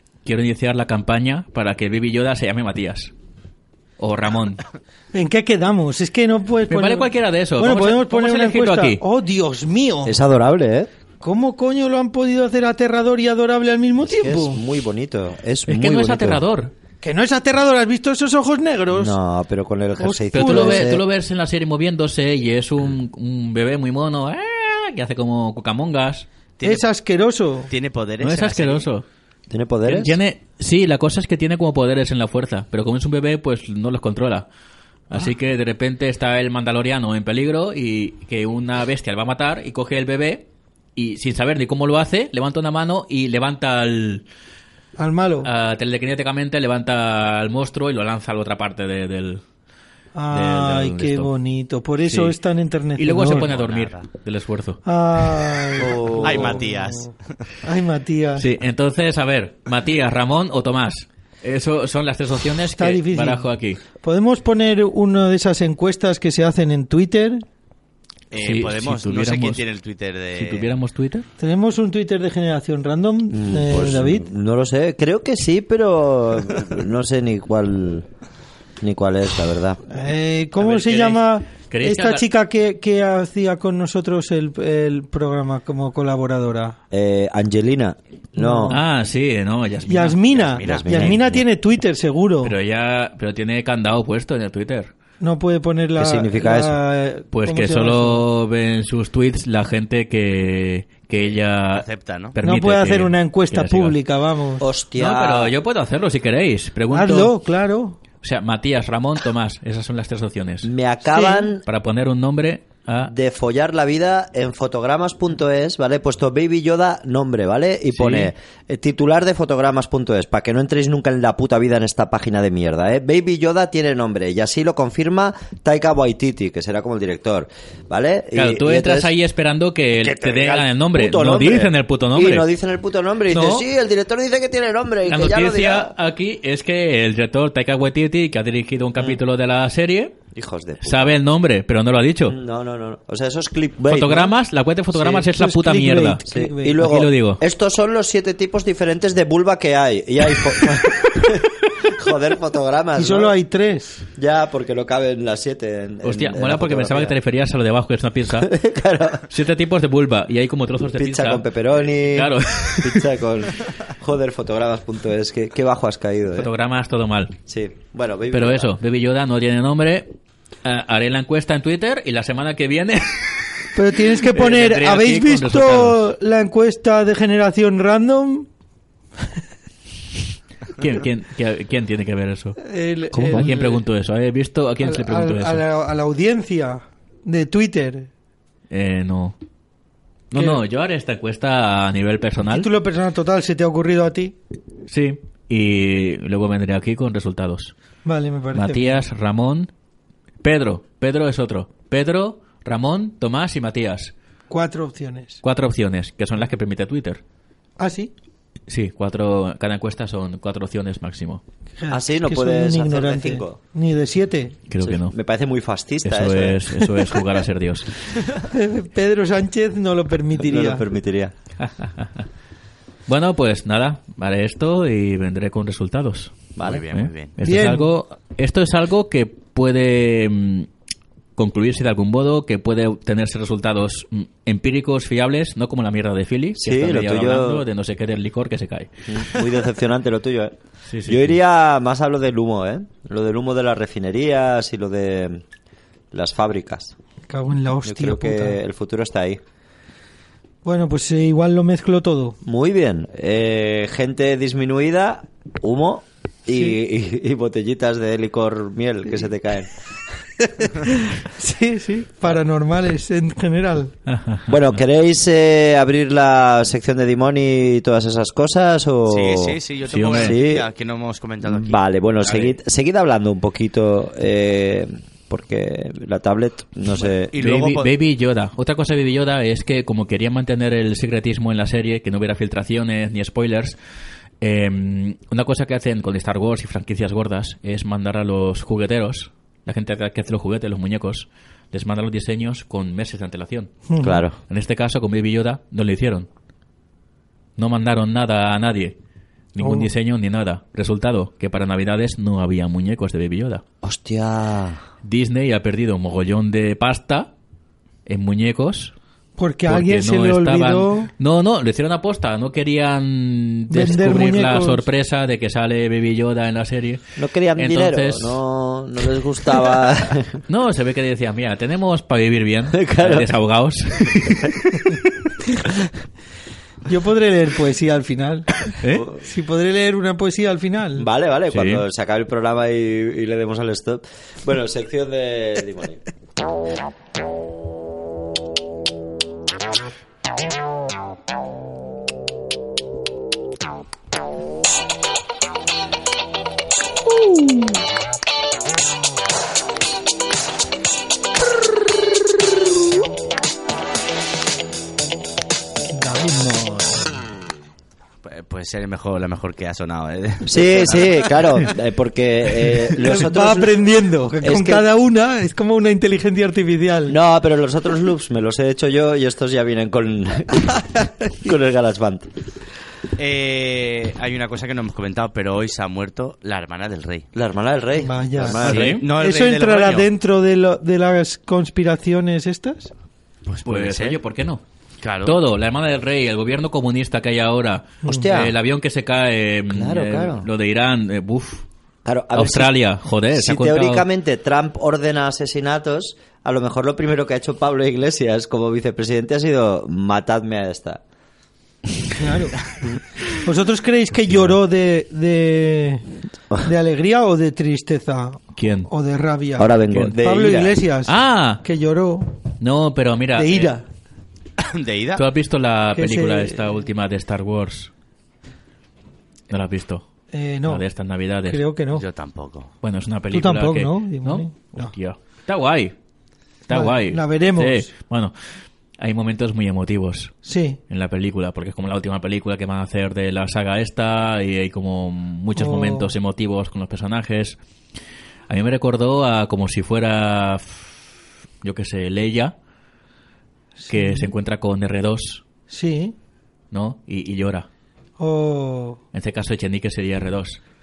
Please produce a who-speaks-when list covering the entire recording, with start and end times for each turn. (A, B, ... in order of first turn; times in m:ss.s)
0:00.2-0:03.1 A
0:04.0-0:04.6 A
0:05.1-0:10.2 B
0:06.7-0:09.0 A
0:10.0-0:10.9 C
0:11.2-0:14.6 B
0:14.0-0:16.4 C
0:15.7-0:16.7 A
0:17.0-0:19.2 B
0:18.9-0:21.0 C
0:20.0-0:20.9 B
0:20.3-0:26.3 A
0:26.6-0:26.8 D
0:26.6-0:27.7 B
0:27.7-0:28.9 D
0:28.2-0:29.0 A
0:29.5-0:30.2 C
0:29.8-0:34.5 A
0:35.1-0:44.2 A
0:45.0-0:45.5 B
0:45.4-0:49.4 A
0:50.1-0:53.5 B
0:50.3-0:51.3 A
0:52.0-0:52.4 A
0:53.0-0:55.2 A
0:53.3-0:54.0 D
0:54.8-0:57.1 B
0:55.8-0:56.7 C
0:56.2-0:57.4 D
0:57.6-0:58.5 B
0:58.4-1:03.8 A
1:02.7-1:03.5 B
1:04.0-1:07.4 B
1:08.3-1:10.7 D
1:08.4-1:09.6 A
1:10.3-1:11.2 A
1:11.4-1:14.2 B
1:13.3-1:18.0 C
1:18.8-1:19.8 C
1:19.9-1:26.8 B
1:20.6-1:22.2 A
1:26.9-1:28.8 C
1:28.4-1:28.8 B
1:28.7-1:30.2 A
1:29.9-1:32.5 B
1:30.3-1:31.2 D
1:30.6-1:31.4 C
1:32.4-1:34.9 A
1:35.2-1:38.2 B
1:36.0-1:36.8 C
1:37.3-1:44.0 A
1:41.7-1:42.4 D
1:42.4-1:44.6 B
1:44.6-1:45.5 C
1:45.0-1:47.3 A
1:46.9-1:48.0 B
1:48.2-1:50.7 A
1:50.6-1:51.6 C
1:51.1-1:51.5 B
1:51.6-1:53.1 A
1:53.0-2:09.1 C
1:57.9-1:58.3 A
2:08.3-2:12.5 A
2:10.0-2:15.9 C
2:13.3-2:13.6 A
2:15.1-2:20.1 A
2:20.3-2:21.1 C
2:20.8-2:22.4 A
2:22.3-2:24.3 C
2:23.9-2:26.2 A
2:24.9-2:26.8 B
2:26.2-2:33.4 C
2:26.8-2:27.4 A
2:33.0-2:34.0 B
2:34.2-2:37.2 C
2:36.0-2:38.5 A
2:38.4-2:39.2 C
2:39.3-2:43.0 A
2:40.9-2:46.5 C
2:46.4-2:47.3 A
2:47.5-2:48.7 C
2:48.3-2:53.7 A
2:53.7-2:58.5 B
2:54.3-2:56.0 A
3:00.7-3:02.6 A
3:02.6-3:03.8 B
3:03.1-3:05.6 A
3:04.8-3:08.1 B
3:08.7-3:09.4 A
3:10.3-3:12.7 A
3:10.4-3:10.6 B
3:12.5-3:14.4 B
3:14.9-3:17.7 A
3:18.0-3:19.0 B
3:18.5-3:19.7 A
3:20.4-3:24.1 A
3:24.5-3:25.4 B
3:25.4-3:27.2 A
3:27.8-3:28.1 B
3:28.7-3:31.4 A
3:31.8-3:34.6 B
3:31.9-3:33.6 C
3:34.7-3:35.1 A
3:34.8-3:36.8 C
3:36.0-3:37.9 A
3:38.5-3:40.8 B
3:40.4-3:41.3 C
3:41.6-3:42.2 A
3:43.1-3:46.4 A
3:46.6-3:46.8 C
3:46.6-3:47.3 D
3:46.9-3:50.7 A
3:47.4-3:47.9 B
3:51.4-3:58.9 A
3:56.6-3:57.6 C
3:59.1-4:00.5 C
4:00.9-4:01.4 A
4:01.0-4:05.4 C
4:06.1-4:06.9 C
4:07.3-4:08.6 B
4:07.8-4:09.4 C
4:10.6-4:12.4 B
4:12.4-4:19.7 C
4:16.5-4:16.8 B
4:20.6-4:23.9 B
4:24.1-4:24.8 A
4:24.5-4:30.7 C
4:29.1-4:32.6 D
4:29.9-4:30.4 A
4:31.4-4:37.3 C
4:36.9-4:37.9 D
4:37.4-4:43.8 A
4:44.4-4:53.7 A
4:53.9-4:54.2 B
4:54.0-4:54.4 C
4:54.5-4:56.3 A
4:57.6-4:59.0 A
4:59.5-5:03.6 A
4:59.6-4:59.9 B
5:03.8-5:04.8 C
5:05.0-5:07.3 A
5:08.0-5:08.9 A
5:09.4-5:11.1 B
5:09.6-5:18.4 A
5:13.7-5:14.9 B
5:17.2-5:20.4 C
5:20.5-5:24.4 A
5:22.7-5:23.3 C
5:26.8-5:31.1 B
5:28.8-5:29.0 A
5:28.9-5:29.2 C
5:31.0-5:36.0 C
5:31.5-5:31.8 A
5:55.9-5:57.2 B
5:58.2-6:01.7 D
6:00.4-6:04.9 C
6:03.0-6:07.2 B
6:07.1-6:12.3 C
6:13.2-6:17.3 D
6:17.3-6:19.0 C
6:18.0-6:18.6 B
6:18.6-6:19.0 A
6:18.6-6:20.1 D
6:19.1-6:22.9 B
6:23.5-6:24.2 D
6:23.6-6:24.6 A
6:25.0-6:25.4 D
6:25.2-6:31.6 A
6:28.0-6:28.3 B
6:28.0-6:28.5 C
6:29.7-6:30.5 C
6:32.0-6:32.8 C
6:32.3-6:34.0 A
6:33.3-6:41.0 C
6:42.2-6:42.6 B
6:43.4-6:46.0 B
6:46.6-6:52.4 B
6:48.5-6:48.9 A
6:49.6-6:50.8 C
6:49.9-6:50.2 A
6:51.0-6:51.6 A
6:52.6-6:53.7 A
6:53.3-6:53.8 B
6:54.6-6:55.2 D
6:55.2-6:57.9 A
6:55.9-6:56.8 B
6:59.5-7:00.0 A
7:00.3-7:00.8 B
7:00.7-7:01.6 A
7:01.5-7:02.0 B
7:01.9-7:02.7 D
7:02.8-7:05.9 A
7:03.3-7:04.9 B
7:06.7-7:10.3 A
7:06.7-7:07.9 B
7:10.4-7:10.8 B
7:10.9-7:17.6 A
7:15.6-7:16.1 B
7:18.5-7:21.0 A
7:21.6-7:22.5 A
7:23.8-7:24.3 B
7:23.9-7:25.4 A
7:25.7-7:26.2 B
7:26.7-7:27.7 A
7:28.2-7:29.0 B
7:29.1-7:30.6 A